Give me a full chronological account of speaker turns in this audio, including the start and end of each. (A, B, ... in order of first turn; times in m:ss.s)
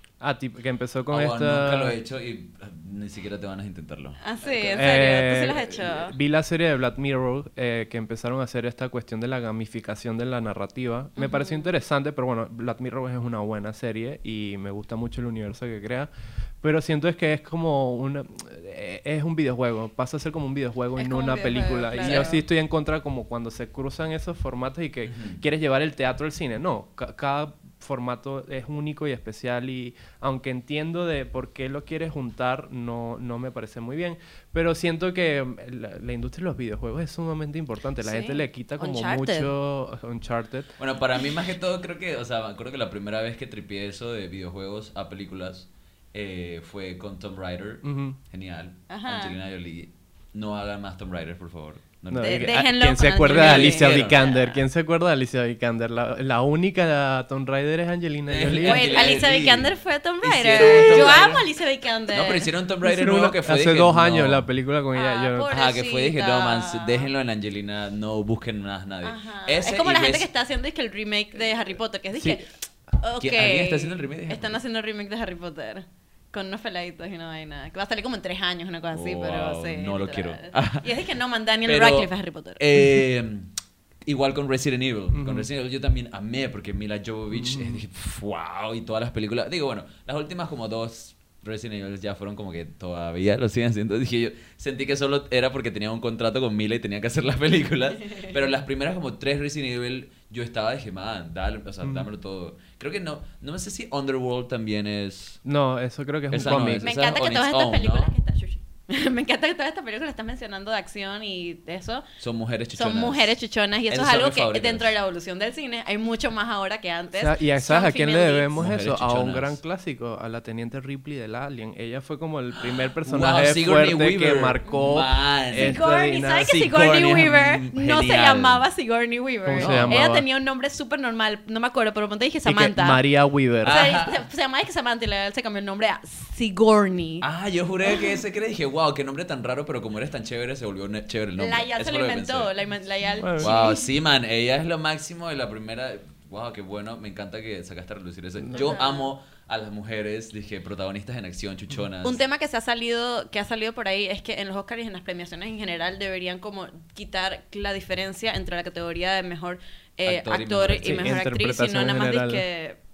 0:00.2-0:02.0 A
0:01.1-0:04.3 B
0:04.2-0:06.1 C
0:04.6-0:16.1 A
0:11.2-0:11.7 C
0:16.6-0:40.7 A
0:21.0-0:22.4 C
0:22.0-0:22.3 B
0:25.1-0:25.4 B
0:38.0-0:39.5 C
0:40.8-0:54.2 B
0:47.8-0:48.2 A
0:48.9-0:49.3 C
0:52.1-0:59.2 A
0:52.2-0:54.6 C
0:58.3-1:01.6 B
0:58.6-1:02.5 C
1:02.1-1:04.5 B
1:02.8-1:05.5 A
1:04.9-1:07.1 C
1:05.5-1:10.3 B
1:09.0-1:22.6 C
1:12.1-1:12.4 A
1:13.2-1:14.6 B
1:18.9-1:21.0 B
1:21.6-1:23.5 B
1:24.0-1:45.4 B
1:25.1-1:25.5 A
1:27.3-1:27.8 A
1:45.4-1:46.8 A
1:46.3-1:48.1 B
1:46.4-1:52.0 C
1:52.2-1:53.3 B
1:52.7-1:58.6 C
1:53.9-1:55.0 B
1:57.2-2:06.4 A
1:58.6-1:59.6 B
2:03.0-2:08.6 B
2:05.5-2:13.0 C
2:09.4-2:10.2 A
2:09.5-2:10.0 B
2:12.4-2:13.8 A
2:13.6-2:14.2 B
2:13.6-2:17.2 C
2:17.2-2:22.5 B
2:17.9-2:18.1 C
2:21.4-2:23.9 C
2:23.2-2:23.5 A
2:23.4-2:32.2 B
2:28.5-2:29.1 C
2:32.0-2:42.8 C
2:40.0-2:41.2 B
2:40.8-2:42.4 A